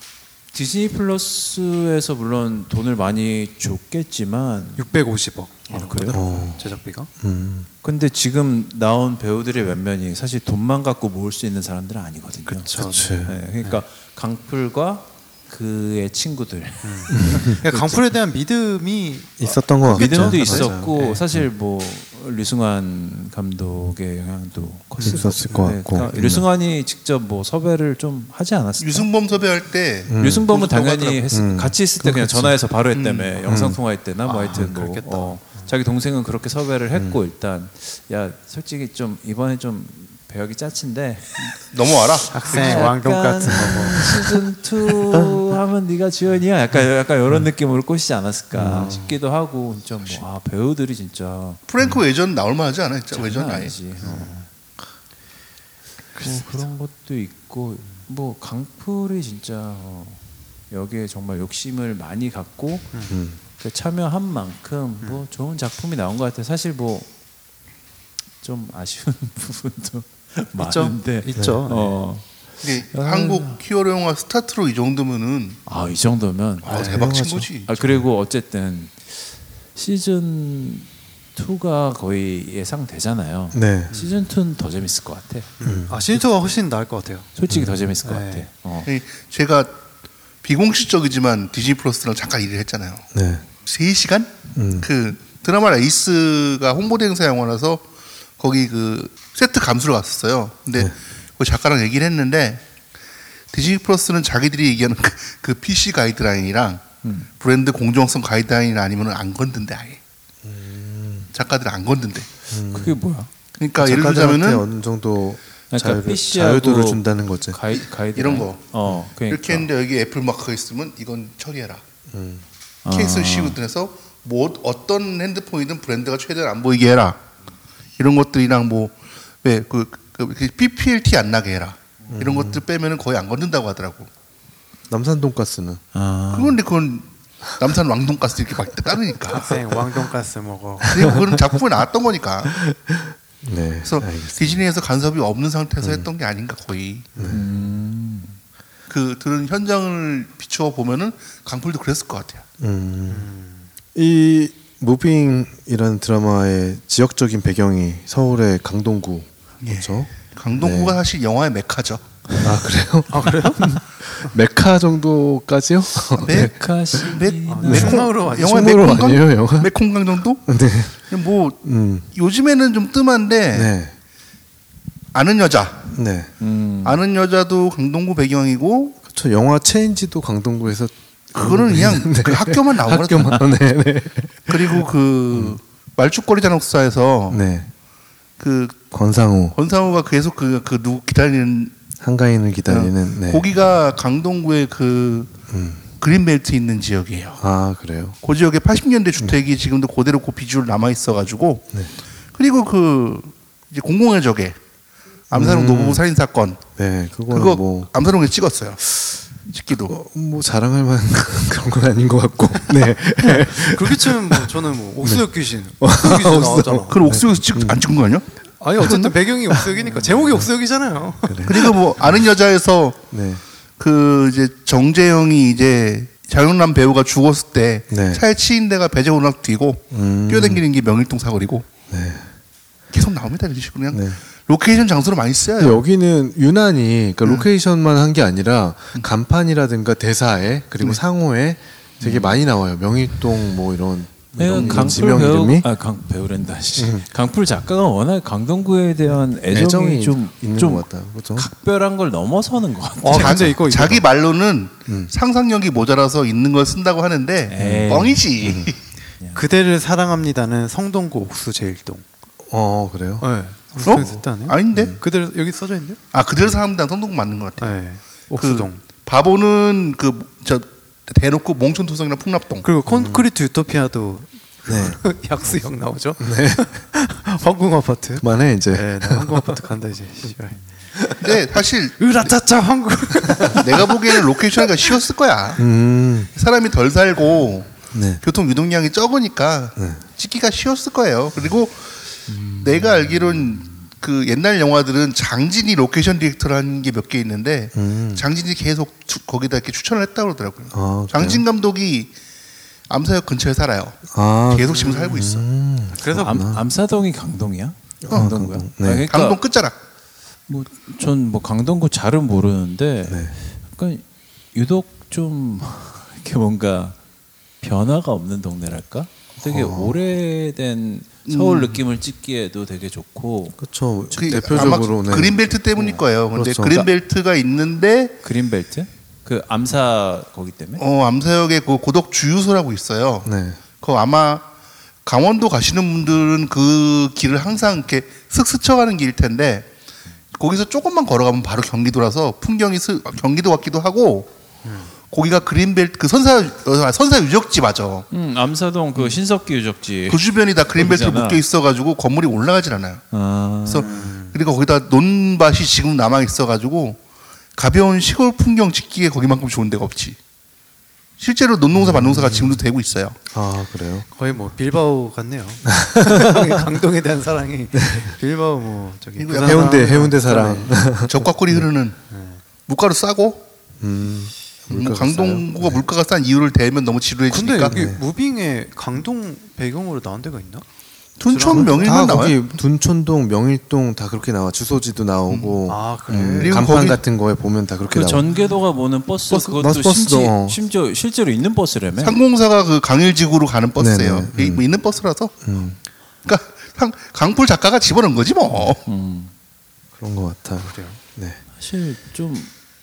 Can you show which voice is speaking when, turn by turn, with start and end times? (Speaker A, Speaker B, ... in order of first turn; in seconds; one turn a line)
Speaker A: 0.5-4.8
Speaker B: 4.8-7.1
Speaker A: 5.7-6.2
Speaker C: 6.1-6.6
Speaker C: 7.2-7.7
Speaker A: 7.8-18.0
Speaker B: 12.5-13.8
Speaker C: 12.8-13.4
Speaker B: 16.8-21.2
Speaker C: 17.1-17.6
Speaker C: 19.4-21.4
Speaker A: 19.8-29.1
Speaker B: 25.0-25.7
Speaker C: 25.0-26.4
Speaker D: 28.8-31.2
Speaker C: 30.0-30.5
Speaker A: 30.2-41.5
Speaker C: 31.3-32.5
Speaker D: 32.9-33.3
Speaker C: 33.5-33.8
Speaker B: 34.2-35.7
Speaker D: 41.4-42.9
Speaker B: 42.3-44.4
Speaker A: 42.4-51.6
Speaker C: 48.5-49.0
Speaker B: 48.7-49.1
Speaker D: 51.7-53.7
Speaker A: 53.1-54.4
Speaker B: 54.0-54.5
Speaker B: 56.1-56.7
Speaker A: 56.2-60.2
Speaker A: 60.7-63.0
Speaker C: 63.1-63.4
Speaker A: 63.5-67.1
Speaker A: 68.4-73.6
Speaker B: 70.6-72.0
Speaker D: 72.6-75.6
Speaker A: 75.7-76.7
Speaker D: 76.6-77.7
Speaker B: 76.7-77.2
Speaker C: 76.7-77.5
Speaker A: 77.6-86.2
Speaker C: 83.5-83.9
Speaker B: 85.6-87.3
Speaker C: 85.6-85.9
Speaker A: 87.3-88.9
Speaker C: 87.5-87.8
Speaker B: 88.0-88.5
Speaker D: 88.8-89.7
Speaker D: 90.4-93.0
Speaker C: 93.1-93.4
Speaker D: 93.6-97.8
Speaker C: 94.5-94.9
Speaker D: 98.4-102.6
Speaker D: 103.5-106.8
Speaker A: 107.0-107.3
Speaker D: 107.4-110.0
Speaker C: 110.4-111.3
Speaker D: 111.3-112.3
Speaker C: 112.5-113.0
Speaker A: 112.7-113.3
Speaker D: 113.6-114.6
Speaker C: 113.8-117.6
Speaker A: 115.7-119.7
Speaker D: 118.2-118.7
Speaker D: 119.3-121.8
Speaker C: 122.1-122.4
Speaker A: 122.8-123.6
Speaker D: 122.9-127.2
Speaker D: 128.0-134.1
Speaker C: 132.1-132.6
Speaker C: 134.9-135.8
Speaker A: 135.9-136.6
Speaker D: 136.3-139.6
Speaker B: 139.3-141.2
Speaker D: 140.8-142.6
Speaker C: 142.5-144.6
Speaker D: 143.8-147.1
Speaker C: 145.8-146.1
Speaker B: 147.1-147.4
Speaker C: 147.2-147.4
Speaker A: 147.3-148.3
Speaker D: 148.9-152.4
Speaker C: 152.6-153.3
Speaker B: 153.1-153.7
Speaker C: 153.9-161.0
Speaker D: 159.6-162.0
Speaker C: 162.4-169.7
Speaker B: 163.1-164.3
Speaker D: 166.2-166.5
Speaker A: 166.2-168.1
Speaker D: 167.1-170.4
Speaker B: 167.4-168.8
Speaker C: 170.4-171.0
Speaker D: 171.1-171.6
Speaker C: 171.6-172.1
Speaker D: 172.1-173.7
Speaker C: 173.5-173.9
Speaker D: 175.1-175.9
Speaker C: 175.9-176.3
Speaker A: 176.4-177.0
Speaker D: 176.8-179.0
Speaker C: 179.0-185.6
Speaker D: 181.3-183.4
Speaker D: 184.5-187.4
Speaker C: 187.3-187.7
Speaker D: 188.4-188.9
Speaker C: 188.9-189.6
Speaker D: 189.5-191.8
Speaker C: 192.0-193.4
Speaker D: 192.7-195.3
Speaker C: 195.5-195.9
Speaker D: 196.0-197.4
Speaker C: 197.4-198.2
Speaker D: 198.2-201.7
Speaker D: 202.3-204.6
Speaker D: 205.3-206.7
Speaker C: 205.3-206.0
Speaker C: 206.8-207.9
Speaker D: 207.3-208.9
Speaker D: 209.4-209.9
Speaker C: 209.9-214.5
Speaker B: 213.2-217.0
Speaker C: 215.0-215.3
Speaker C: 215.8-217.8
Speaker D: 216.9-219.2
Speaker B: 218.6-221.7
Speaker C: 220.2-220.4
Speaker C: 221.2-222.2
Speaker D: 221.5-223.1
Speaker C: 223.1-223.4
Speaker D: 223.8-231.7
Speaker C: 227.9-228.2
Speaker C: 229.9-230.6
Speaker C: 231.9-232.3
Speaker D: 232.9-235.8
Speaker C: 233.9-234.2
Speaker C: 235.6-245.7
Speaker A: 242.0-242.4
Speaker A: 244.4-253.6
Speaker D: 244.5-245.1
Speaker C: 246.8-247.1
Speaker C: 249.5-251.5
Speaker B: 253.0-254.1
Speaker D: 253.1-258.8
Speaker C: 254.9-255.1
Speaker A: 257.4-258.6
Speaker C: 257.6-258.7
Speaker B: 259.3-262.0
Speaker C: 262.4-263.2
Speaker B: 263.2-266.0
Speaker D: 263.8-264.9
Speaker A: 263.9-264.2
Speaker C: 264.7-265.0
Speaker D: 266.1-267.7
Speaker B: 267.6-268.8
Speaker D: 268.4-272.6
Speaker B: 272.6-280.6
Speaker C: 272.9-273.3
Speaker C: 274.7-275.0
Speaker C: 276.2-276.7
Speaker C: 278.2-279.6
Speaker C: 280.9-281.4
Speaker D: 281.2-282.0
Speaker B: 282.0-284.2
Speaker C: 283.2-283.6
Speaker D: 283.4-285.6
Speaker C: 285.6-286.3
Speaker D: 286.3-292.0
Speaker C: 287.9-288.2
Speaker C: 289.8-290.0
Speaker A: 292.3-293.7
Speaker D: 292.6-302.1
Speaker C: 297.7-298.2
Speaker C: 300.7-301.4
Speaker D: 302.9-305.4
Speaker C: 304.1-306.6
Speaker B: 306.0-306.4
Speaker A: 306.1-309.4
Speaker C: 308.0-309.1
Speaker D: 309.1-309.8
Speaker A: 310.5-314.0
Speaker C: 313.1-313.4
Speaker A: 314.5-316.9
Speaker A: 317.6-323.6
Speaker C: 319.4-320.0
Speaker D: 321.3-321.8
Speaker C: 323.6-325.4
Speaker D: 324.1-328.1
Speaker A: 324.3-324.8
Speaker A: 325.7-326.0
Speaker C: 326.3-326.9
Speaker A: 328.2-330.8
Speaker D: 330.8-334.4
Speaker C: 333.2-333.6
Speaker D: 335.0-339.7
Speaker D: 340.3-344.3
Speaker B: 344.6-344.9
Speaker D: 345.1-348.1
Speaker A: 348.1-351.4
Speaker D: 350.1-353.0
Speaker A: 353.1-353.9
Speaker D: 353.6-357.0
Speaker B: 353.8-354.4
Speaker D: 357.5-360.2
Speaker D: 361.2-363.2
Speaker C: 361.7-362.6
Speaker C: 363.3-364.1
Speaker B: 364.1-370.8
Speaker C: 365.7-366.4
Speaker D: 369.2-370.4
Speaker C: 369.3-371.7
Speaker D: 371.1-372.0
Speaker B: 372.1-372.4
Speaker D: 372.6-373.5
Speaker C: 373.8-375.8
Speaker D: 374.7-377.7
Speaker B: 377.3-380.6
Speaker C: 377.7-378.0
Speaker D: 381.2-382.6
Speaker B: 381.2-382.2
Speaker C: 381.5-388.3
Speaker D: 385.3-385.6
Speaker B: 385.7-386.7
Speaker D: 386.1-387.0
Speaker A: 387.9-392.2
Speaker C: 389.3-390.6
Speaker D: 392.0-395.4
Speaker C: 393.8-394.6
Speaker C: 395.4-395.8
Speaker D: 396.2-398.8
Speaker A: 398.8-399.3
Speaker C: 400.0-401.4
Speaker B: 400.6-401.0
Speaker A: 401.6-402.5